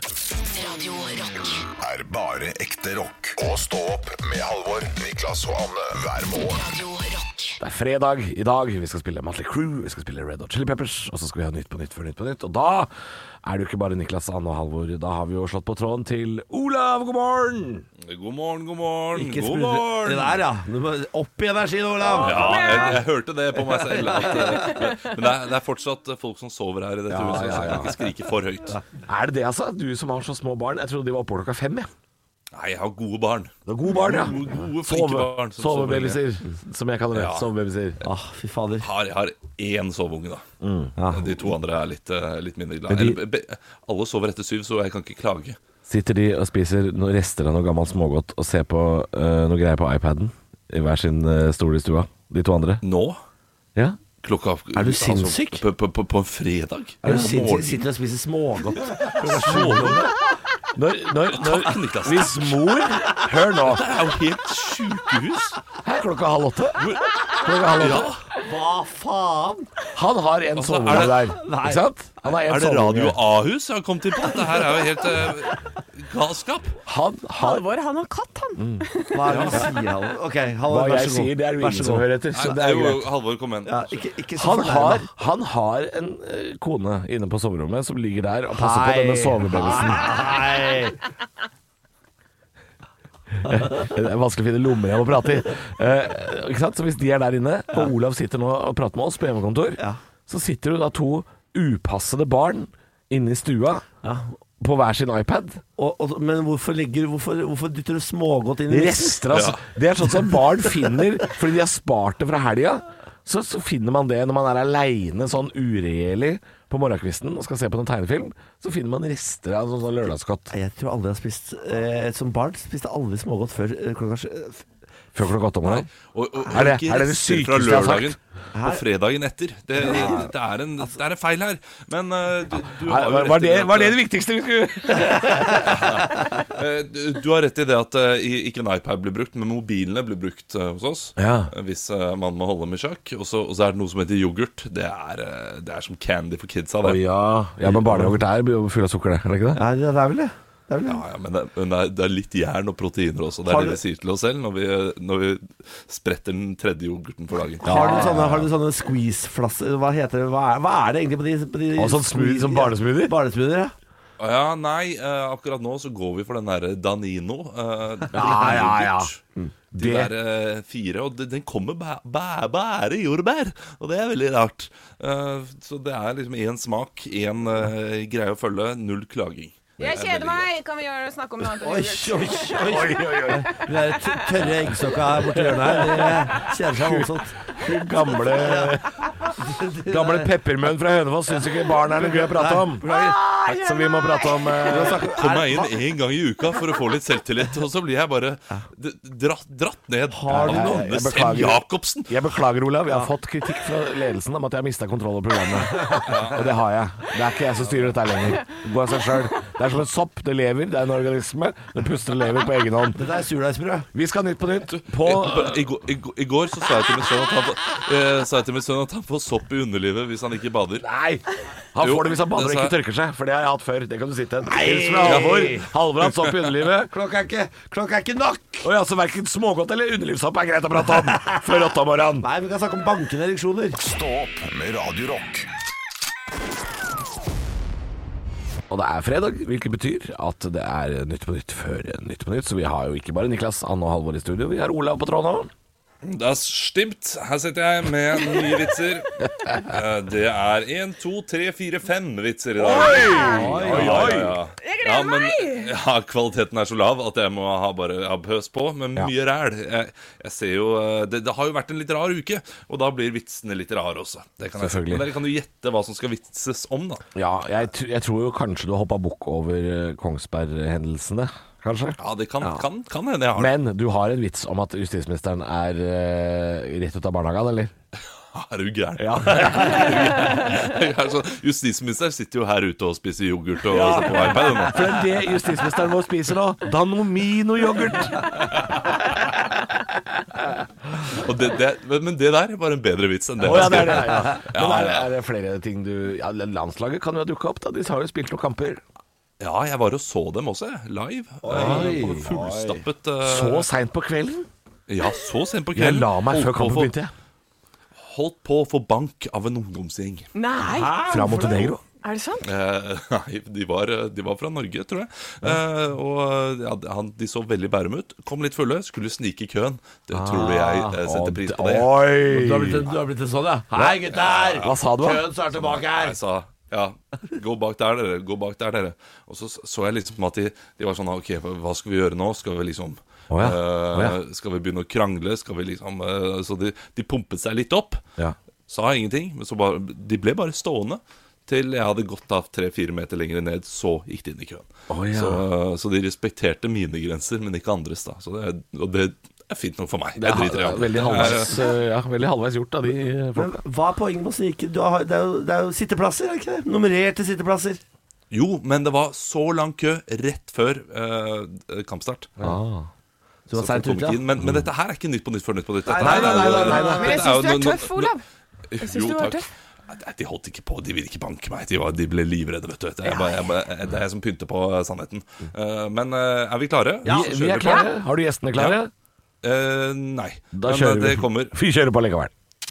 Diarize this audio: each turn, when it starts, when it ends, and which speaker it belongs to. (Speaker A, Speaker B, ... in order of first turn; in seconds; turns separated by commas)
Speaker A: 0.4-1.7, Speaker B: 1.8-6.6, Speaker A: 6.5-7.6, Speaker C: 7.6-12.9, Speaker C: 13.4-17.8, Speaker D: 18.0-20.4, Speaker E: 19.1-23.0, Speaker F: 22.1-23.0, Speaker D: 22.2-28.8, Speaker E: 23.5-24.9, Speaker C: 27.1-28.0, Speaker C: 29.1-31.9, Speaker D: 32.5-36.2, Speaker C: 33.6-38.0, Speaker D: 37.1-37.5, Speaker E: 38.0-38.9, Speaker D: 38.8-40.4, Speaker C: 40.6-40.9, Speaker E: 41.0-41.3, Speaker D: 41.1-45.6, Speaker C: 42.9-43.2, Speaker C: 45.9-52.8, Speaker D: 52.8-53.2, Speaker C: 53.7-54.0, Speaker D: 54.2-57.8, Speaker E: 54.7-55.6, Speaker E: 57.0-60.1, Speaker D: 59.2-60.1, Speaker C: 59.5-60.0, Speaker C: 60.7-63.9, Speaker D: 61.3-62.8, Speaker D: 63.6-65.6, Speaker C: 65.8-68.2, Speaker D: 66.8-68.2, Speaker E: 68.4-69.7, Speaker C: 69.9-73.2, Speaker D: 70.5-71.3, Speaker E: 70.9-71.8, Speaker D: 72.2-76.8, Speaker C: 76.8-77.6, Speaker F: 77.4-79.5, Speaker C: 78.6-78.8, Speaker E: 79.1-82.1, Speaker D: 79.3-79.7, Speaker C: 80.7-83.0, Speaker D: 82.3-83.8, Speaker E: 83.7-85.1, Speaker C: 84.4-90.2, Speaker E: 88.5-91.0, Speaker C: 93.4-103.8, Speaker E: 104.0-104.3, Speaker C: 104.6-105.6, Speaker E: 105.8-109.2, Speaker C: 108.7-120.5, Speaker D: 109.3-109.6, Speaker E: 120.5-124.7, Speaker C: 125.1-125.9, Speaker D: 125.7-134.0, Speaker C: 126.5-128.2, Speaker E: 128.5-128.8, Speaker E: 129.9-130.2, Speaker C: 132.7-136.0, Speaker D: 135.6-147.0, Speaker C: 141.2-141.5, Speaker C: 146.8-149.6, Speaker E: 147.8-148.1, Speaker E: 149.6-151.0, Speaker D: 150.8-158.2, Speaker E: 153.4-153.8, Speaker E: 157.6-163.7, Speaker C: 157.6-158.5, Speaker C: 161.8-163.1, Speaker D: 164.2-169.2, Speaker C: 168.1-169.1, Speaker E: 168.2-168.6, Speaker D: 169.7-180.5, Speaker C: 169.8-170.1, Speaker F: 179.8-184.3, Speaker E: 181.6-187.3, Speaker C: 182.6-183.6, Speaker C: 185.3-186.1, Speaker C: 186.7-189.0, Speaker E: 188.3-188.8, Speaker E: 189.4-190.3, Speaker C: 189.9-192.8, Speaker E: 191.8-193.2, Speaker F: 192.8-194.6, Speaker C: 193.4-195.1, Speaker E: 194.7-195.7, Speaker D: 195.0-202.1, Speaker E: 200.1-200.9, Speaker C: 200.3-213.0, Speaker D: 206.0-206.5, Speaker E: 212.9-213.9, Speaker C: 213.9-215.6, Speaker D: 214.8-220.8, Speaker C: 220.8-226.9, Speaker D: 221.8-222.7, Speaker E: 224.4-225.7, Speaker D: 225.0-225.5, Speaker D: 226.0-226.5, Speaker E: 226.9-228.7, Speaker C: 228.6-232.3, Speaker E: 232.2-233.8, Speaker B: 233.8-235.5, Speaker C: 238.7-245.5, Speaker D: 246.0-267.0, Speaker C: 252.6-254.4, Speaker E: 252.9-254.3, Speaker F: 254.6-255.7, Speaker C: 264.6-265.1, Speaker C: 267.1-272.0, Speaker D: 272.0-273.5, Speaker C: 273.4-277.7, Speaker D: 278.3-285.1, Speaker C: 279.0-280.4, Speaker C: 283.7-288.7, Speaker D: 291.1-295.1, Speaker C: 293.4-298.8, Speaker D: 299.4-303.7, Speaker C: 301.4-304.5, Speaker E: 301.5-302.4, Speaker D: 304.9-306.9, Speaker C: 305.7-307.1, Speaker D: 308.0-310.3, Speaker F: 310.3-312.5, Speaker E: 310.7-311.7, Speaker C: 310.9-311.8, Speaker D: 312.4-321.9, Speaker C: 320.1-322.8, Speaker E: 322.3-326.2, Speaker D: 324.1-324.8, Speaker C: 324.6-325.2, Speaker D: 325.5-338.0, Speaker C: 333.3-334.2, Speaker D: 338.7-351.7, Speaker C: 344.9-345.4, Speaker C: 350.2-353.6, Speaker E: 353.4-357.8, Speaker D: 358.3-362.3, Speaker C: 362.4-362.9, Speaker E: 363.5-364.2, Speaker D: 363.5-368.1, Speaker C: 364.4-364.7, Speaker E: 365.8-367.2, Speaker C: 366.0-367.0, Speaker F: 366.1-368.2, Speaker D: 368.7-377.9, Speaker F: 368.8-369.5, Speaker F: 373.0-373.4, Speaker E: 377.0-377.3, Speaker C: 377.0-378.9, Speaker D: 379.4-381.5, Speaker C: 380.5-382.3